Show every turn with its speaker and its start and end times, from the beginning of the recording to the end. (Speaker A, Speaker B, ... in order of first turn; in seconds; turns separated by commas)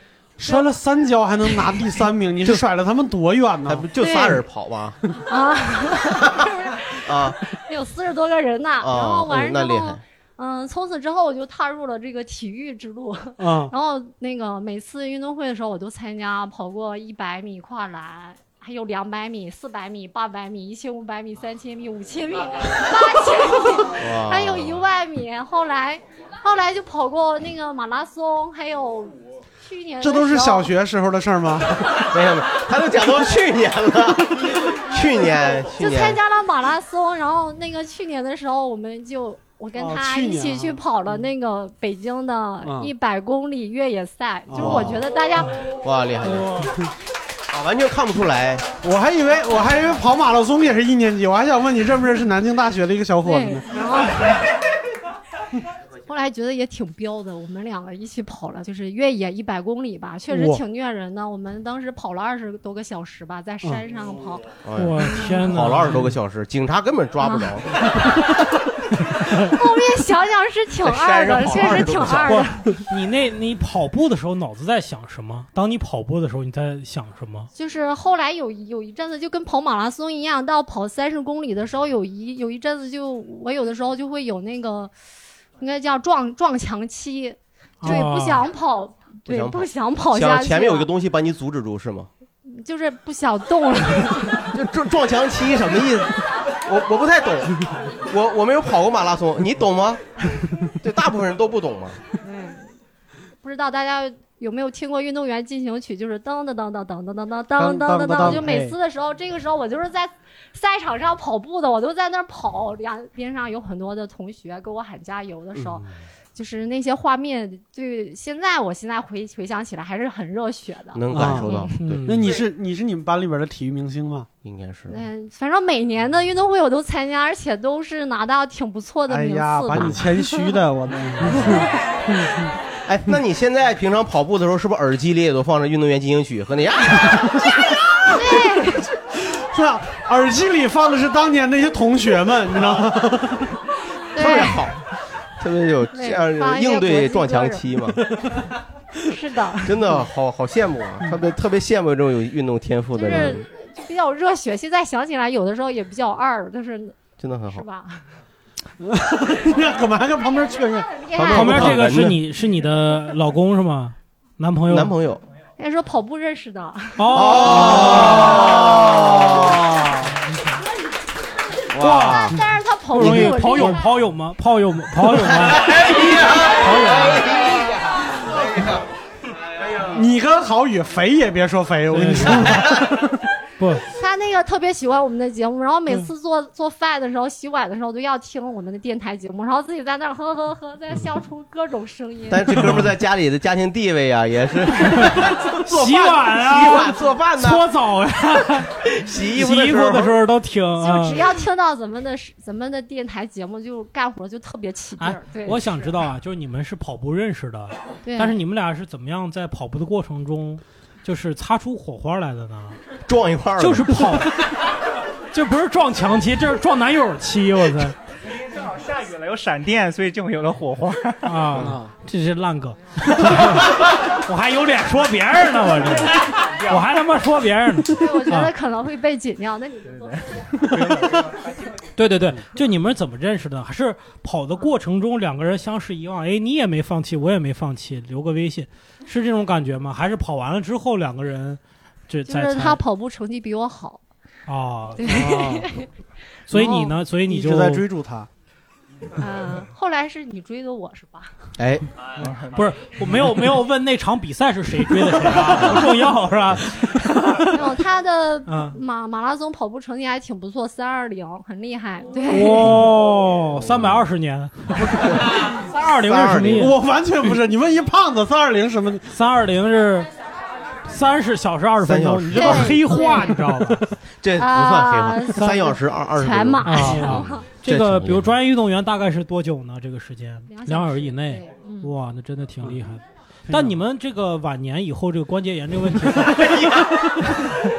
Speaker A: 0.4-3.9, Speaker B: 0.4-0.7, Speaker C: 3.7-5.0, Speaker B: 4.0-4.4, Speaker B: 5.3-30.7, Speaker C: 6.2-6.5, Speaker C: 7.0-7.4, Speaker C: 8.8-10.0, Speaker A: 13.4-13.7, Speaker C: 23.9-24.8, Speaker A: 30.0-32.1, Speaker C: 32.0-36.2, Speaker B: 35.8-45.6, Speaker A: 39.8-40.8, Speaker A: 42.6-42.9, Speaker A: 44.5-45.0, Speaker C: 44.5-45.0, Speaker C: 45.8-46.7, Speaker D: 46.3-46.6, Speaker C: 47.5-48.7, Speaker A: 48.8-53.7, Speaker B: 53.2-54.4, Speaker B: 56.1-64.5, Speaker A: 60.3-60.6, Speaker C: 64.6-67.8, Speaker D: 64.8-66.1, Speaker B: 67.2-67.5, Speaker B: 69.4-72.8, Speaker C: 70.8-72.5, Speaker D: 72.9-77.5, Speaker B: 77.5-84.9, Speaker B: 85.6-90.9, Speaker D: 87.8-88.5, Speaker C: 89.3-92.1, Speaker B: 92.5-94.5, Speaker C: 94.5-100.0, Speaker C: 100.8-102.0, Speaker B: 102.2-102.7, Speaker B: 103.4-121.7, Speaker A: 107.6-108.8, Speaker C: 115.5-115.9, Speaker C: 120.9-122.4, Speaker A: 121.1-121.5, Speaker D: 121.8-122.3, Speaker A: 122.0-124.3, Speaker C: 124.4-125.0, Speaker B: 124.9-130.6, Speaker A: 129.1-132.4, Speaker C: 129.8-130.0, Speaker B: 131.4-131.7, Speaker C: 132.9-137.5, Speaker B: 138.1-138.9, Speaker A: 139.2-143.6, Speaker B: 144.1-144.7, Speaker C: 144.2-144.8, Speaker C: 145.4-148.0, Speaker B: 145.9-147.6, Speaker B: 149.1-149.8, Speaker C: 149.6-153.5, Speaker B: 152.9-158.0, Speaker C: 157.2-157.7, Speaker A: 158.8-160.9, Speaker B: 160.8-161.8, Speaker C: 161.1-162.2, Speaker D: 161.3-164.9, Speaker C: 164.7-165.2, Speaker B: 165.6-168.1, Speaker D: 167.0-168.3, Speaker C: 167.1-169.7, Speaker A: 167.7-170.1, Speaker C: 171.7-172.4, Speaker D: 171.8-172.2, Speaker B: 172.2-173.9, Speaker D: 172.9-177.3, Speaker C: 175.6-178.8, Speaker A: 179.9-183.1, Speaker D: 181.9-182.6, Speaker D: 183.6-183.8, Speaker B: 183.9-192.7, Speaker C: 192.3-197.7, Speaker D: 194.9-201.2, Speaker C: 198.8-200.2, Speaker B: 200.8-205.9, Speaker D: 205.0-212.8, Speaker B: 208.1-208.4, Speaker C: 213.1-214.3, Speaker D: 213.6-214.5, Speaker D: 215.3-218.0, Speaker E: 218.5-221.4, Speaker D: 221.2-228.5, Speaker A: 221.5-221.9, Speaker B: 228.0-230.3, Speaker E: 230.9-231.3, Speaker D: 231.9-242.8, Speaker B: 242.3-244.0, Speaker D: 244.5-245.3, Speaker B: 245.0-245.9, Speaker A: 245.1-245.7, Speaker D: 246.5-247.9, Speaker A: 246.6-248.3, Speaker B: 246.6-246.8, Speaker B: 249.2-251.3, Speaker C: 251.6-251.8, Speaker D: 252.5-257.6, Speaker B: 257.5-262.7, Speaker D: 258.5-258.8, Speaker D: 262.3-266.8, Speaker C: 263.6-264.0, Speaker C: 264.9-265.4, Speaker C: 266.0-266.7, Speaker A: 266.4-269.1, Speaker D: 269.1-270.1, Speaker D: 270.9-273.9, Speaker C: 271.8-272.8, Speaker B: 272.3-273.5, Speaker C: 274.2-278.3, Speaker B: 274.4-277.5, Speaker D: 275.4-275.7, Speaker D: 276.6-286.7, Speaker B: 280.5-281.9, Speaker A: 283.5-283.8, Speaker C: 286.4-286.9